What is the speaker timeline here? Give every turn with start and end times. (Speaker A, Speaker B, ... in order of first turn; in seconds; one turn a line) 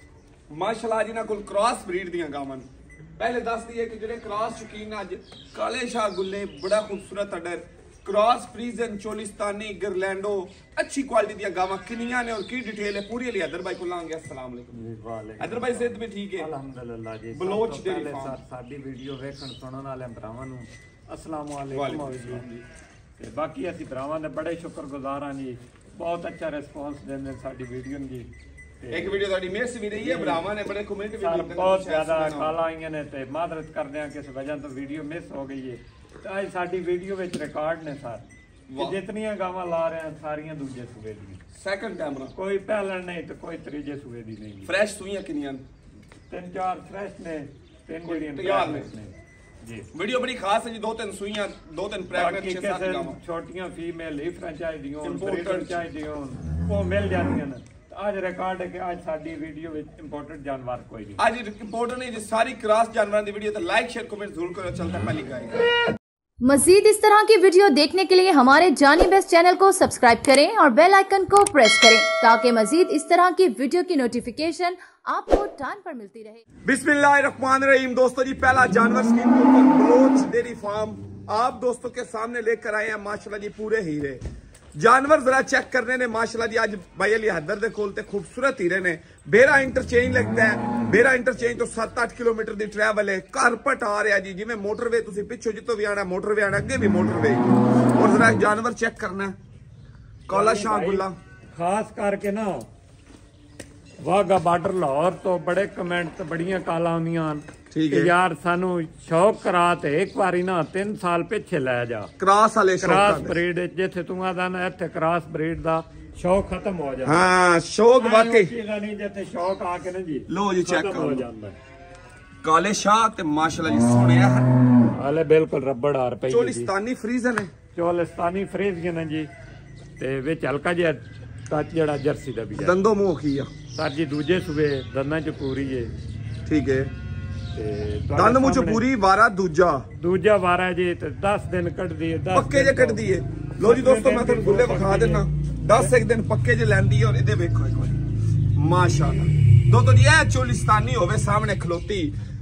Speaker A: 0.5-14.7
Speaker B: 14.7-22.4
Speaker A: 15.4-16.5
Speaker A: 17.3-18.4
Speaker A: 21.7-22.6
Speaker B: 23.2-29.2
Speaker A: 28.9-32.6
Speaker B: 29.9-30.5
Speaker B: 31.2-38.2
Speaker A: 38.7-39.0
Speaker B: 38.8-41.4
Speaker A: 41.5-42.3
Speaker B: 42.3-44.7
Speaker A: 44.6-45.6
Speaker B: 46.3-49.9
Speaker A: 48.0-48.9
Speaker A: 49.9-53.2
Speaker B: 52.1-61.2
Speaker A: 55.0-55.8
Speaker A: 61.2-65.7
Speaker C: 66.4-76.4
Speaker A: 76.6-84.2
Speaker A: 84.8-99.3
Speaker A: 100.3-101.2
Speaker B: 100.3-102.7
Speaker B: 104.0-112.1
Speaker A: 107.7-108.1
Speaker A: 112.2-113.4
Speaker B: 112.8-117.2
Speaker A: 117.0-118.5
Speaker B: 118.0-121.6
Speaker A: 120.3-121.3
Speaker A: 122.4-124.5
Speaker B: 124.9-126.7
Speaker A: 126.3-127.5
Speaker B: 127.7-129.3
Speaker B: 130.0-132.8
Speaker A: 132.6-133.5
Speaker B: 133.7-135.9
Speaker A: 136.4-136.9
Speaker B: 137.5-138.8
Speaker A: 138.1-139.8
Speaker B: 140.0-143.1
Speaker A: 142.3-148.0
Speaker B: 143.6-145.9
Speaker A: 148.6-152.1